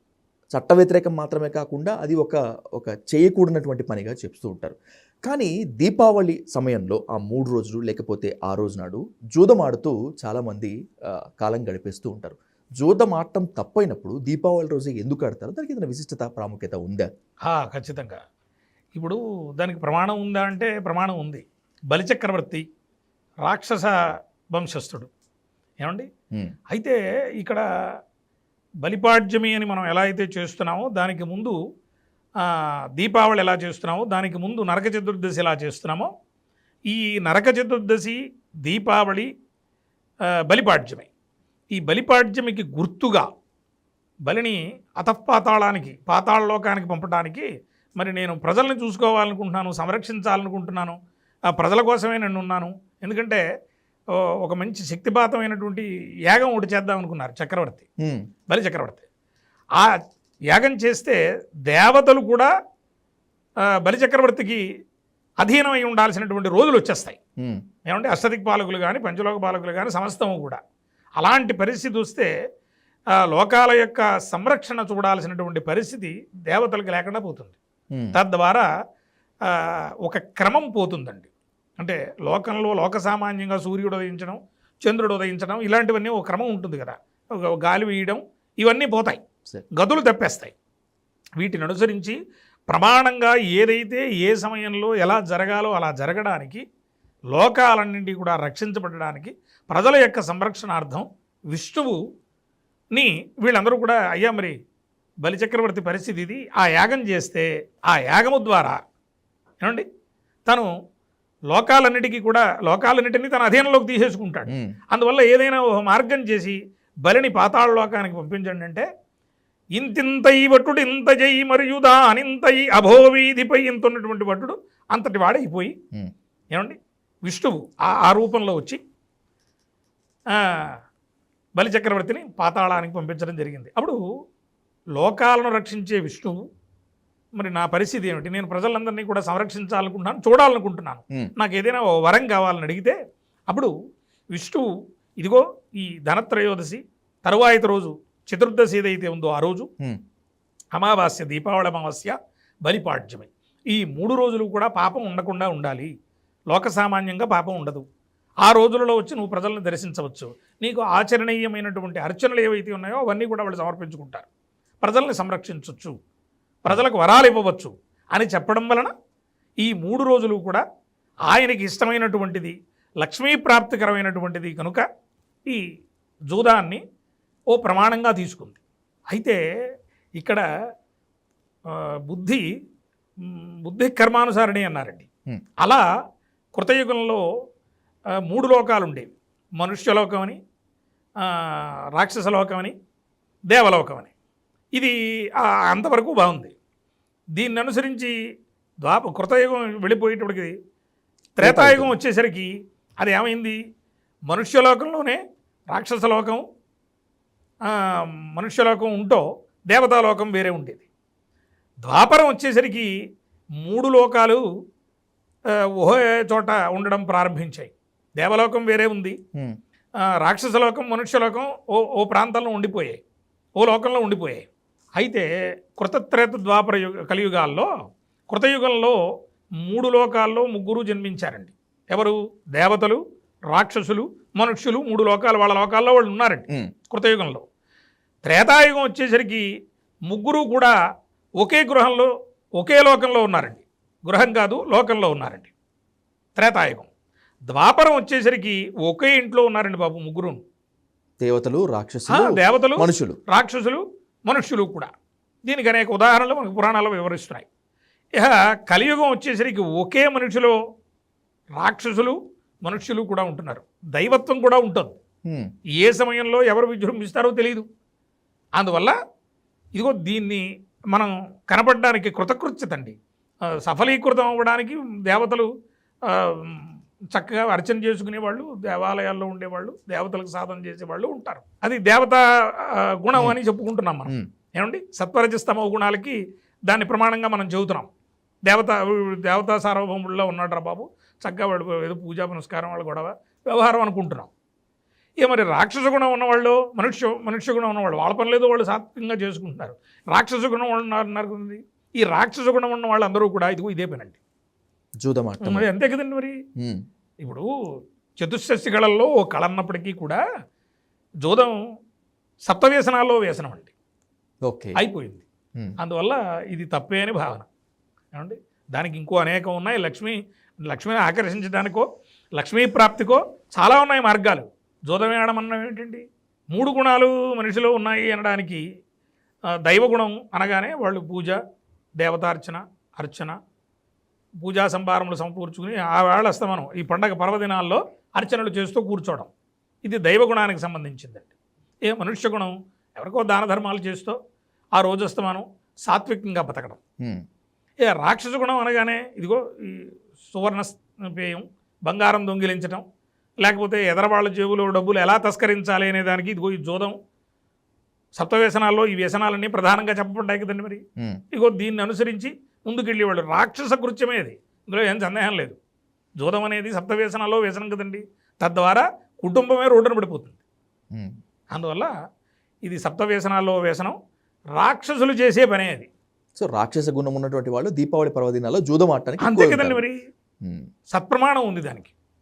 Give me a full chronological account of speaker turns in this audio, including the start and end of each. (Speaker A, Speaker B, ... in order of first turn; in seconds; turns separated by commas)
Speaker A: 0.5-17.1, Speaker B: 17.4-18.2, Speaker B: 18.9-22.6, Speaker B: 23.4-24.0, Speaker B: 24.5-25.1, Speaker B: 25.8-26.1, Speaker B: 26.7-27.6, Speaker B: 28.8-31.6, Speaker B: 32.4-36.1, Speaker B: 36.9-39.3, Speaker B: 40.4-41.1, Speaker B: 41.7-43.3, Speaker B: 44.2-51.0, Speaker B: 51.5-53.4, Speaker B: 54.1-57.8, Speaker B: 58.5-59.0, Speaker B: 60.5-62.5, Speaker B: 63.7-64.6, Speaker B: 65.4-67.2, Speaker B: 67.9-70.6, Speaker B: 71.2-72.3, Speaker B: 73.2-77.6, Speaker B: 78.1-78.7, Speaker B: 79.4-81.3, Speaker B: 81.8-89.2, Speaker B: 89.8-90.5, Speaker B: 91.4-92.2, Speaker B: 92.7-96.6, Speaker B: 97.3-102.0, Speaker B: 102.9-104.5, Speaker B: 105.2-108.8, Speaker B: 111.5-118.9, Speaker A: 114.5-114.7, Speaker B: 119.8-125.7, Speaker B: 126.5-128.8, Speaker B: 130.3-130.8, Speaker B: 131.6-134.0, Speaker B: 135.0-136.4, Speaker B: 137.4-143.0, Speaker B: 144.3-149.7, Speaker B: 150.7-155.9, Speaker B: 156.5-157.8, Speaker B: 158.4-164.3, Speaker B: 164.8-166.0, Speaker B: 166.7-168.9, Speaker B: 169.6-170.6, Speaker B: 171.3-174.9, Speaker B: 176.3-176.8, Speaker B: 177.5-178.6, Speaker B: 179.1-179.4, Speaker B: 180.2-180.4, Speaker B: 181.7-182.4, Speaker B: 183.2-185.1, Speaker B: 186.6-187.2, Speaker B: 188.2-190.4, Speaker B: 191.2-192.7, Speaker B: 193.5-194.1, Speaker B: 194.8-196.5, Speaker B: 197.4-198.1, Speaker B: 198.8-200.5, Speaker B: 201.4-202.5, Speaker A: 201.4-201.9, Speaker B: 203.0-203.6, Speaker B: 204.3-205.2, Speaker B: 205.7-206.4, Speaker B: 207.7-210.8, Speaker B: 211.8-212.9, Speaker B: 213.6-214.4, Speaker B: 215.6-219.2, Speaker B: 220.1-223.0, Speaker B: 223.6-224.5, Speaker B: 225.0-227.7, Speaker B: 228.3-229.0, Speaker B: 229.6-237.4, Speaker B: 238.2-239.5, Speaker B: 240.1-240.8, Speaker B: 241.4-245.5, Speaker B: 246.4-246.9, Speaker B: 247.5-250.4, Speaker A: 251.2-253.2, Speaker B: 252.1-254.9, Speaker B: 255.4-257.5, Speaker B: 258.2-260.6, Speaker B: 261.6-265.0, Speaker B: 265.8-267.6, Speaker B: 268.6-268.9, Speaker B: 269.8-272.9, Speaker B: 273.5-275.5, Speaker B: 276.1-287.9, Speaker B: 288.5-294.3, Speaker B: 295.2-304.2, Speaker A: 305.0-305.7, Speaker B: 305.4-306.4, Speaker B: 308.2-310.2, Speaker B: 311.2-311.6, Speaker B: 312.4-313.7, Speaker A: 314.5-314.8, Speaker B: 314.8-315.2, Speaker B: 315.8-317.5, Speaker B: 318.1-328.6, Speaker B: 329.6-331.4, Speaker B: 332.0-333.4, Speaker B: 334.4-339.3, Speaker B: 339.9-341.3, Speaker B: 341.9-344.2, Speaker B: 344.8-346.8, Speaker B: 347.9-352.8, Speaker B: 353.4-357.0, Speaker B: 358.1-360.8, Speaker B: 361.3-365.6, Speaker B: 366.2-370.4, Speaker B: 371.5-371.9, Speaker B: 372.6-374.0, Speaker B: 374.6-375.9, Speaker A: 376.4-379.8, Speaker B: 379.2-379.9, Speaker B: 380.9-381.9